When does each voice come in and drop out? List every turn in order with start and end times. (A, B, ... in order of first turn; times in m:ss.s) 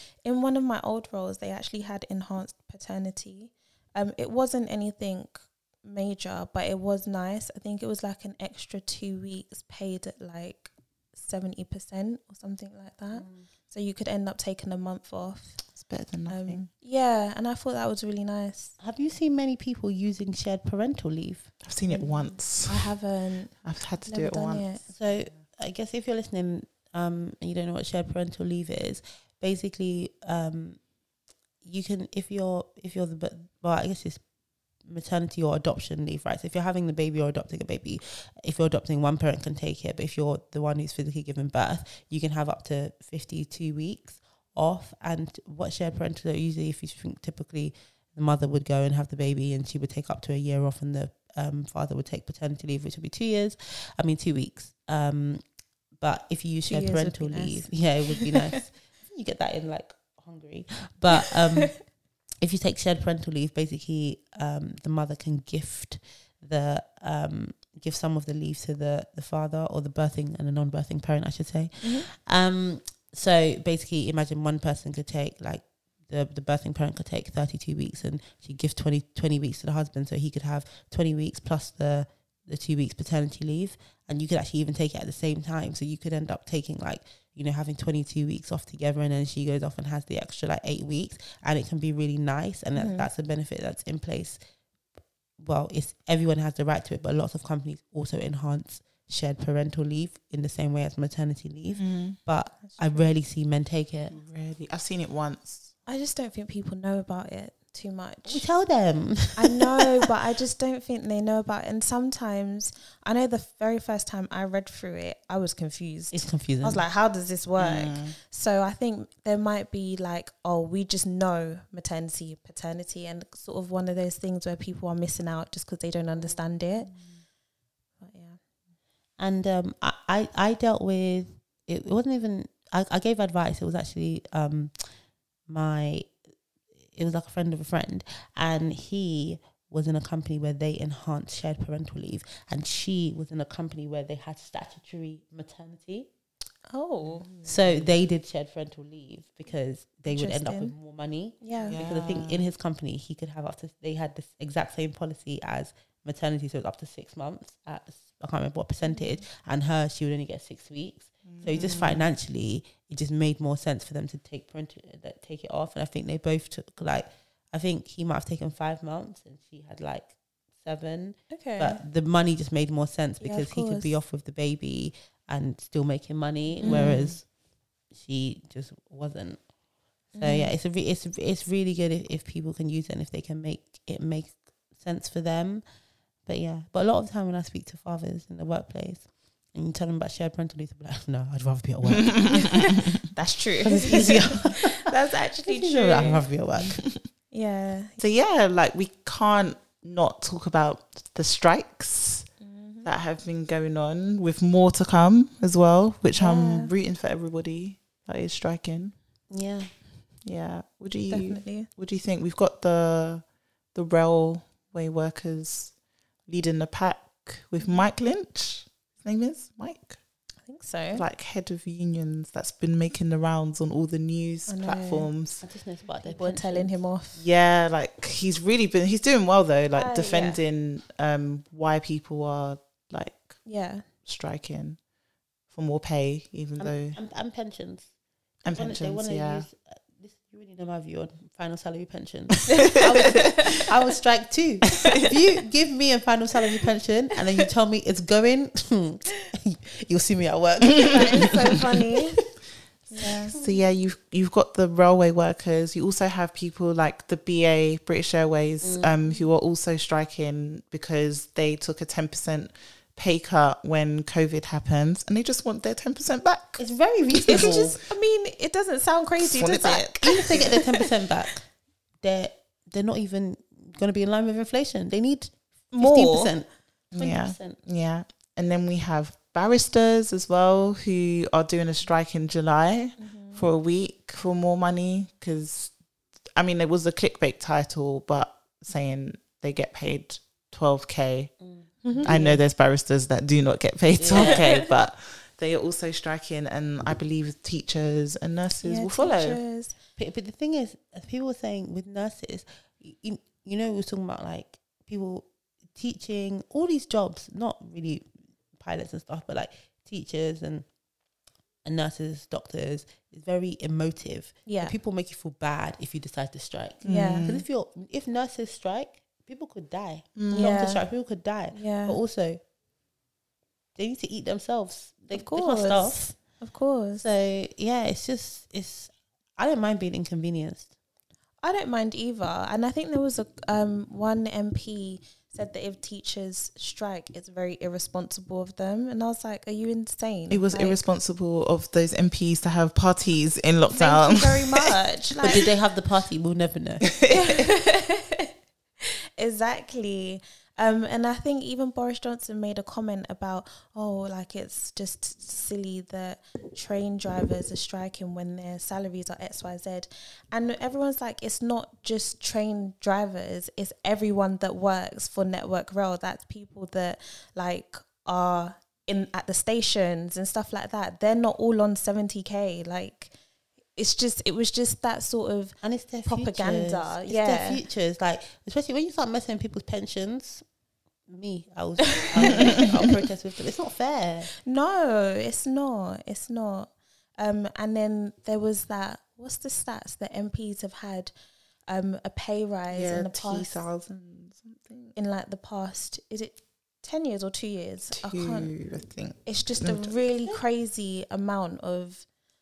0:00.2-0:18.8 A
0:13.1-0:13.5 B
0:15.8-0:16.7 C
0:18.8-0:21.5 B
0:21.6-0:23.0 C
0:21.9-0:24.8 A
0:23.6-0:24.7 C
0:24.9-0:30.8 B
0:31.6-0:34.3 B
0:34.8-0:55.4 B
0:55.9-1:34.4 B
0:56.6-0:58.3 A
1:11.8-1:12.1 A
1:32.8-1:33.1 A
1:35.4-1:44.1 B
1:41.8-1:42.2 C
1:42.6-1:43.1 A
1:44.1-1:45.7 C
1:45.8-1:48.5 A
1:48.2-1:49.7 B
1:49.3-2:06.9 A
1:56.1-1:56.8 B
1:57.6-1:58.2 C
2:08.0-2:08.4 A
2:09.2-2:14.9 B
2:15.4-2:16.1 B
2:16.9-2:26.1 B
2:26.7-2:27.3 A
2:27.2-2:27.9 C
2:27.4-2:57.3 B
2:30.1-2:30.7 A
2:31.4-2:31.8 A
2:31.6-2:32.4 C
2:38.8-2:39.2 A
2:41.2-2:42.0 C
2:41.6-2:41.9 A
2:51.3-2:51.8 A
2:53.2-2:54.0 A
2:56.6-2:57.1 A
2:56.6-2:57.1 C
2:57.9-2:59.4 B
3:00.1-3:05.6 B
3:00.1-3:00.5 A
3:06.2-3:12.7 B
3:11.9-3:12.8 C
3:12.3-3:16.3 A
3:13.6-3:14.9 B
3:15.4-3:16.8 B
3:16.7-3:17.0 C
3:17.3-3:18.0 A
3:18.0-3:22.3 C
3:22.4-3:22.9 A
3:22.8-3:29.0 C
3:26.2-3:26.7 A
3:29.3-3:29.7 B
3:30.2-3:35.8 C
3:31.1-3:31.7 A
3:36.3-3:40.0 C
3:37.6-3:37.8 A
3:40.4-3:41.0 A
3:40.9-3:45.4 C
3:44.5-3:45.1 A
3:45.4-3:46.8 B
3:46.0-3:47.2 A
3:47.2-3:53.4 C
3:49.7-3:50.4 A
3:53.4-3:53.8 A
3:54.0-3:54.8 C
3:55.5-3:57.0 C
3:56.6-3:57.9 B
3:58.4-3:59.5 C
3:58.5-4:12.0 B
4:02.5-4:03.4 A
4:10.9-4:12.2 A
4:12.9-4:13.3 A
4:13.0-4:13.6 B
4:13.3-4:27.6 C
4:18.6-4:19.0 B
4:26.6-4:27.8 B
4:27.3-4:30.8 A
4:29.2-4:30.5 C
4:30.0-4:37.6 B
4:35.7-4:36.3 A
4:36.9-4:45.8 C
4:43.0-4:43.5 A
4:46.4-4:51.3 C
4:51.4-4:52.4 B
4:51.8-4:52.4 A
4:52.0-4:59.4 C
4:54.0-4:54.4 B
4:54.2-4:54.7 A
4:58.6-4:59.7 A
5:00.0-5:10.7 B
5:11.6-5:22.4 B
5:14.4-5:14.7 A
5:16.8-5:17.4 C
5:16.8-5:17.4 A
5:20.2-5:20.5 C
5:20.3-5:20.8 A
5:21.5-5:22.0 A
5:23.8-5:26.2 B
5:25.1-5:27.0 A
5:27.0-5:30.7 B
5:31.4-5:40.8 A
5:40.3-5:44.7 C
5:43.7-5:45.4 A
5:45.2-5:47.0 B
5:46.9-5:47.3 C
5:47.1-5:48.3 A
5:49.2-6:13.1 A
6:13.8-6:17.6 A
6:15.6-6:20.4 B
6:21.1-6:24.3 B
6:22.0-6:22.7 A
6:24.4-6:31.1 A
6:31.7-6:33.6 A
6:32.7-6:34.9 C
6:34.9-6:38.5 A
6:37.9-6:40.0 C
6:39.2-6:42.1 A